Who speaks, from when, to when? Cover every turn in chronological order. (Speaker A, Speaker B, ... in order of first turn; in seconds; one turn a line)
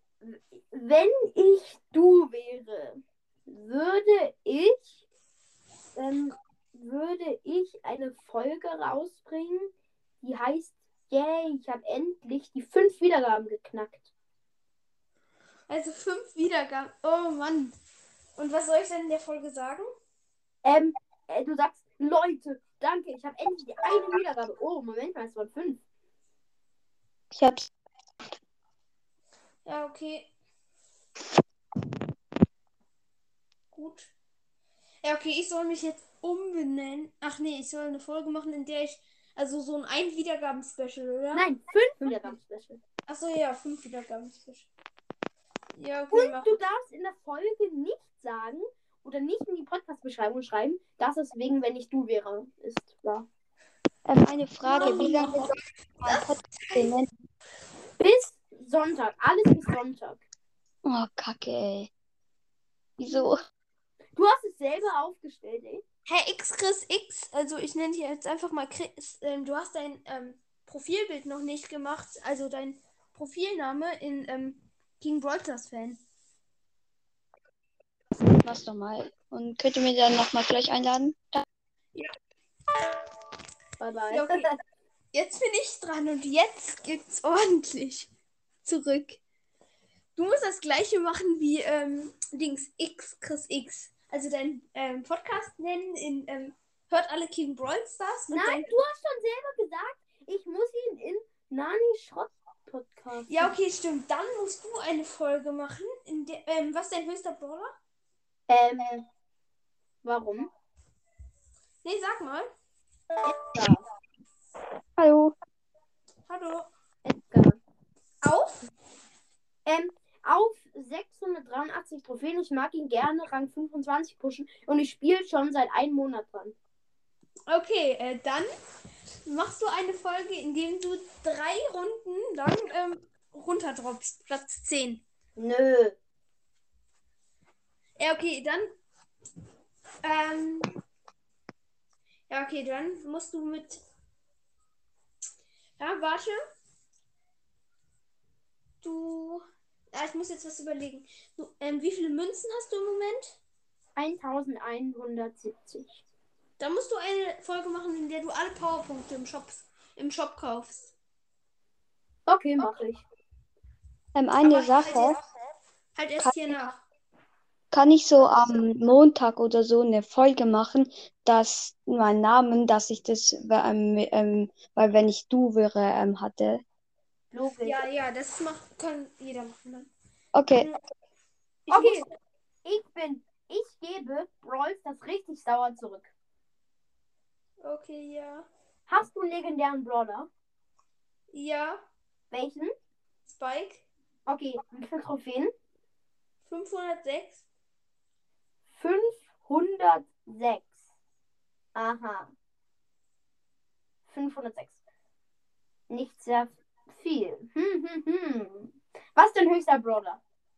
Speaker A: 0.2-5.0
Speaker A: 5.9-14.1
Speaker B: 15.7-17.7
Speaker B: 18.4-19.9
Speaker A: 20.6-25.8
Speaker C: 27.3-27.7
Speaker B: 29.6-30.3
Speaker B: 33.7-34.1
Speaker B: 35.0-41.5
Speaker A: 41.3-42.8
Speaker B: 42.0-42.3
Speaker B: 43.1-44.7
Speaker B: 45.7-46.5
Speaker A: 46.1-53.3
Speaker C: 54.0-57.1
Speaker B: 54.6-56.9
Speaker A: 54.8-55.1
Speaker A: 58.0-60.2
Speaker C: 60.8-61.9
Speaker C: 63.0-63.4
Speaker A: 64.2-65.8
Speaker B: 66.0-76.0
Speaker C: 78.4-81.4
Speaker A: 83.8-84.6
Speaker B: 84.1-84.5
Speaker B: 85.1-88.1
Speaker B: 88.6-89.2
Speaker B: 90.2-98.7
Speaker A: 98.3-103.5
Speaker B: 103.3-107.8
Speaker A: 108.5-109.0
Speaker A: 110.0-110.5
Speaker B: 111.8-112.5
Speaker A: 113.2-113.8
Speaker C: 115.0-115.3
Speaker B: 116.3-116.7
Speaker A: 117.0-117.6
Speaker B: 118.2-118.6
Speaker A: 119.7-126.5
Speaker B: 127.5-128.5
Speaker B: 129.2-135.0
Speaker A: 135.3-135.9
Speaker B: 138.0-138.7
Speaker B: 140.0-140.7
Speaker B: 142.3-143.8
Speaker B: 145.8-146.4
Speaker B: 148.8-153.4
Speaker A: 153.9-156.0
Speaker B: 156.6-160.9
Speaker A: 162.3-163.0
Speaker C: 164.1-165.2
Speaker B: 164.4-165.2
Speaker B: 165.9-166.8
Speaker C: 167.7-176.6
Speaker A: 177.3-177.8
Speaker B: 177.6-179.9
Speaker C: 180.3-180.7
Speaker B: 181.7-182.1
Speaker A: 181.7-182.1
Speaker A: 182.6-186.1
Speaker B: 187.6-188.5
Speaker A: 188.9-190.3
Speaker B: 191.3-191.8
Speaker A: 192.3-192.7
Speaker B: 193.2-193.8
Speaker A: 194.3-195.5
Speaker B: 196.4-197.4
Speaker A: 198.8-200.7
Speaker A: 201.7-202.3
Speaker A: 204.1-204.8
Speaker A: 205.9-210.2